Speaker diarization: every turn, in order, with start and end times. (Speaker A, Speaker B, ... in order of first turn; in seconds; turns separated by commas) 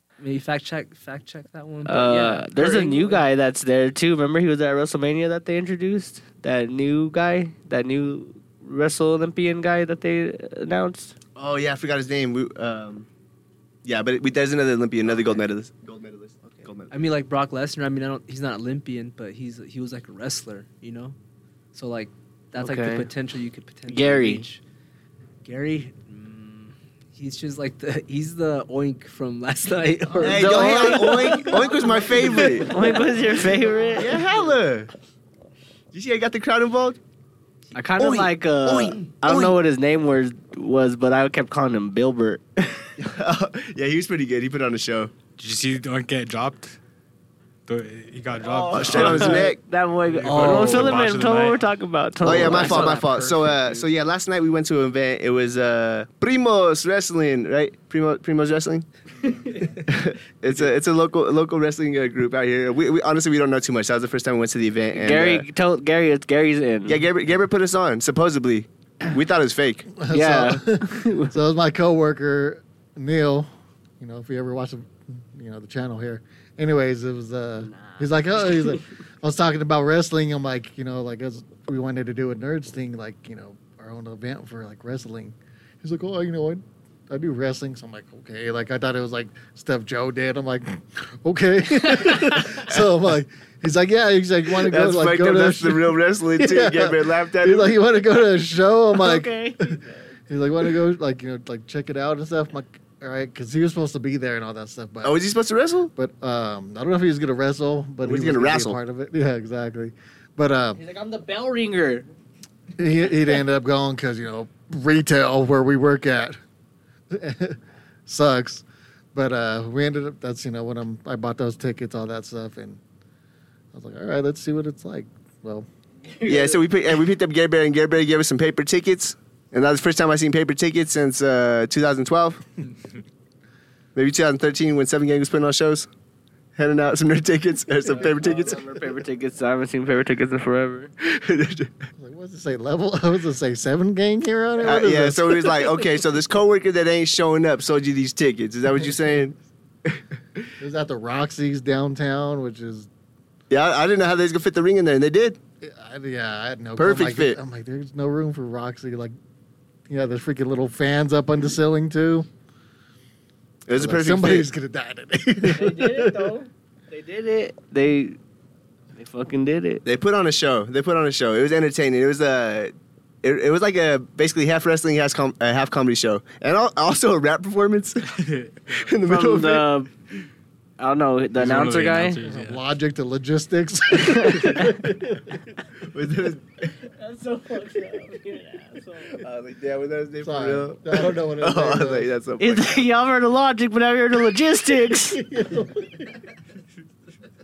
Speaker A: 0.2-3.3, Speaker B: 1.9-11.1, Speaker C: 11.4-13.1, Speaker C: 13.8-16.9, Speaker A: 15.1-15.4, Speaker A: 16.9-21.2, Speaker A: 21.7-24.6, Speaker B: 22.6-23.1, Speaker B: 23.9-24.4, Speaker A: 25.4-34.6, Speaker C: 30.2-32.7, Speaker B: 30.2-34.2, Speaker C: 34.0-34.9, Speaker C: 35.9-37.0, Speaker B: 37.8-42.9, Speaker C: 38.0-39.6, Speaker C: 43.0-45.1, Speaker D: 45.4-46.8, Speaker D: 47.7-49.5, Speaker C: 48.4-49.6, Speaker B: 48.9-53.7, Speaker A: 49.2-49.5, Speaker D: 50.1-51.6, Speaker A: 50.2-51.1, Speaker C: 52.2-58.9, Speaker A: 52.2-53.8, Speaker A: 59.5-59.8, Speaker C: 59.9-65.5, Speaker B: 64.9-67.0, Speaker C: 66.9-69.9, Speaker E: 70.0-105.2, Speaker B: 70.1-71.3, Speaker B: 77.6-78.8, Speaker C: 94.6-97.8, Speaker B: 98.9-99.8, Speaker C: 105.0-105.9, Speaker E: 106.0-110.8, Speaker C: 108.0-108.8, Speaker B: 110.8-112.1, Speaker E: 112.8-116.4, Speaker E: 117.1-122.8, Speaker E: 123.7-125.7, Speaker B: 126.1-126.6, Speaker C: 126.2-132.4, Speaker C: 133.9-135.9, Speaker C: 136.6-138.6, Speaker B: 137.9-140.9, Speaker C: 141.0-141.9, Speaker E: 142.0-145.6, Speaker C: 144.6-149.3, Speaker E: 148.8-149.3, Speaker E: 150.6-152.9, Speaker C: 153.5-155.4, Speaker E: 155.6-159.1, Speaker C: 156.8-157.4, Speaker E: 159.9-162.3, Speaker C: 163.7-164.5, Speaker E: 163.7-166.3, Speaker B: 165.4-168.2, Speaker B: 168.9-169.8, Speaker C: 169.8-179.7, Speaker D: 178.3-178.7, Speaker B: 179.0-179.9, Speaker B: 180.8-182.2, Speaker D: 181.3-182.6, Speaker E: 182.2-185.5, Speaker B: 183.9-184.7, Speaker C: 185.9-186.7, Speaker B: 186.8-189.2, Speaker C: 189.2-192.9, Speaker E: 190.2-192.1, Speaker B: 192.4-195.2, Speaker E: 195.1-196.1